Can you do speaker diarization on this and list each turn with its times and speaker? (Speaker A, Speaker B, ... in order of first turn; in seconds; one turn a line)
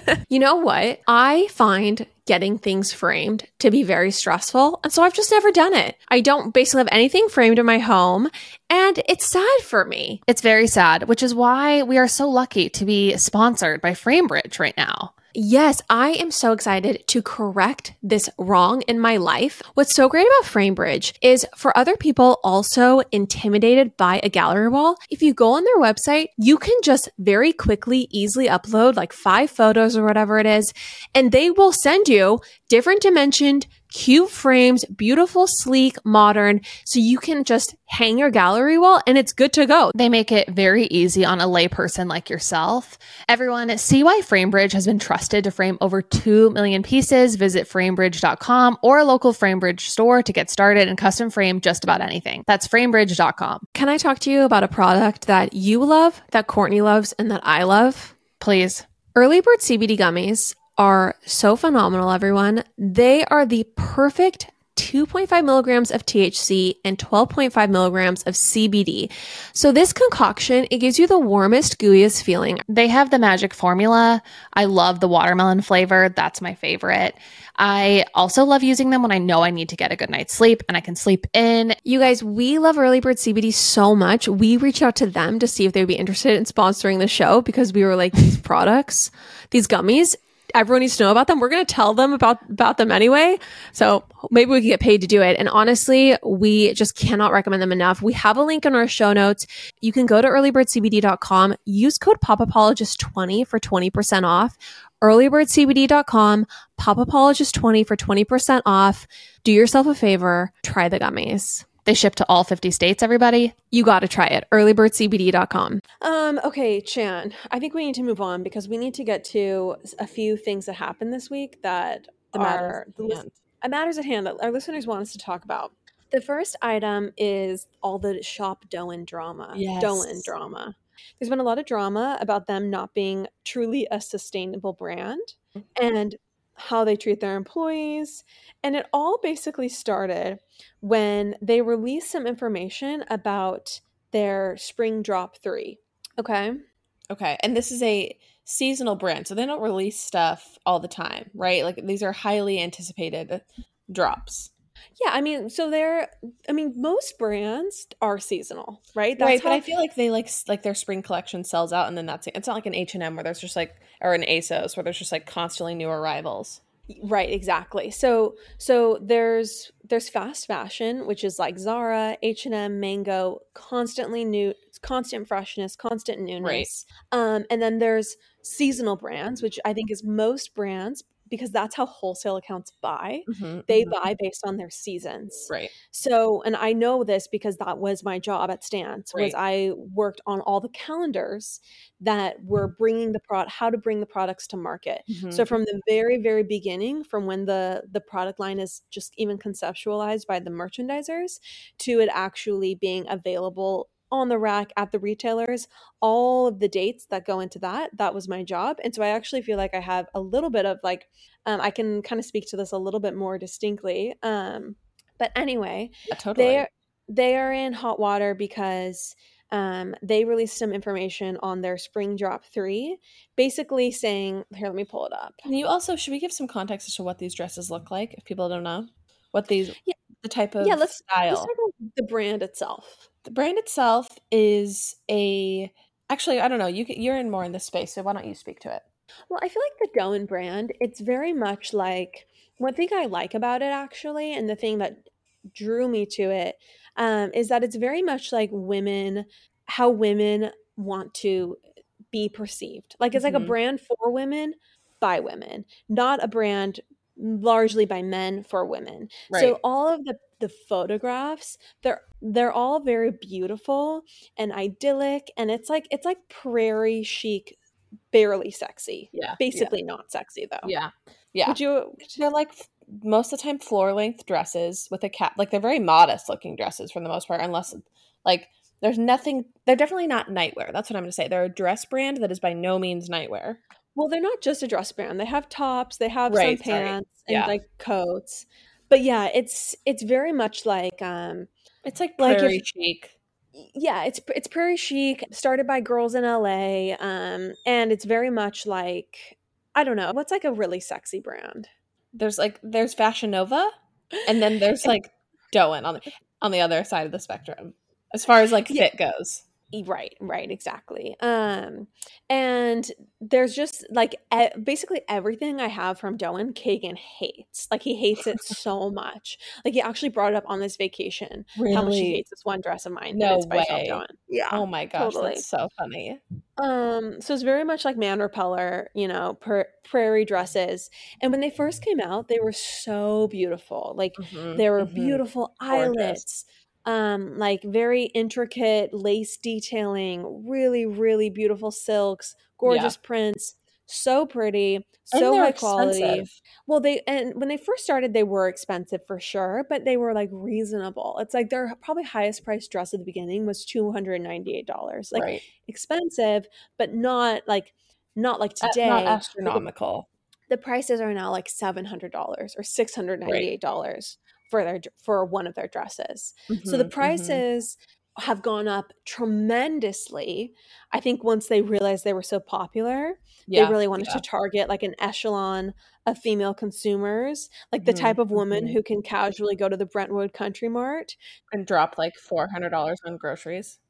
Speaker A: 0.3-10.2
Speaker B: 10.3-15.1
Speaker A: 15.3-39.9
Speaker B: 39.9-53.6
Speaker A: 53.8-58.1
Speaker B: 58.4-58.9
Speaker A: 59.1-72.6
Speaker B: 72.7-81.8
Speaker A: 81.8-111.7
Speaker B: 111.8-113.6
Speaker A: 113.7-146.6
Speaker C: 122.3-123.3
Speaker C: 129.5-130.3
Speaker C: 147.1-154.5
Speaker A: 155.0-159.7
Speaker C: 159.2-166.6
Speaker A: 166.9-225.4
Speaker C: 176.4-176.7
Speaker C: 183.3-184.0
Speaker C: 195.1-195.5
Speaker C: 216.1-216.7
Speaker C: 225.4-231.5
Speaker A: 230.6-233.1
Speaker C: 233.2-238.8
Speaker A: 239.3-251.6
Speaker A: 252.1-267.6
Speaker C: 253.1-253.5
Speaker C: 259.3-259.6
Speaker A: 268.1-270.7
Speaker C: 269.1-269.7
Speaker C: 270.6-271.6
Speaker A: 271.4-272.1
Speaker C: 272.1-283.6
Speaker A: 283.9-291.5
Speaker C: 286.3-287.5
Speaker C: 291.9-293.1
Speaker A: 292.2-292.6
Speaker A: 293.6-301.7
Speaker C: 302.1-303.7
Speaker C: 304.2-309.4
Speaker A: 309.7-325.4
Speaker C: 321.6-322.2
Speaker C: 323.1-326.2
Speaker A: 326.6-359.6
Speaker C: 334.2-336.2
Speaker C: 342.6-342.9
Speaker C: 345.1-346.4
Speaker C: 355.1-355.4
Speaker C: 358.6-360.1
Speaker A: 360.5-381.1
Speaker C: 366.5-367.4
Speaker C: 373.5-374.2
Speaker C: 377.9-378.8
Speaker C: 381.5-383.8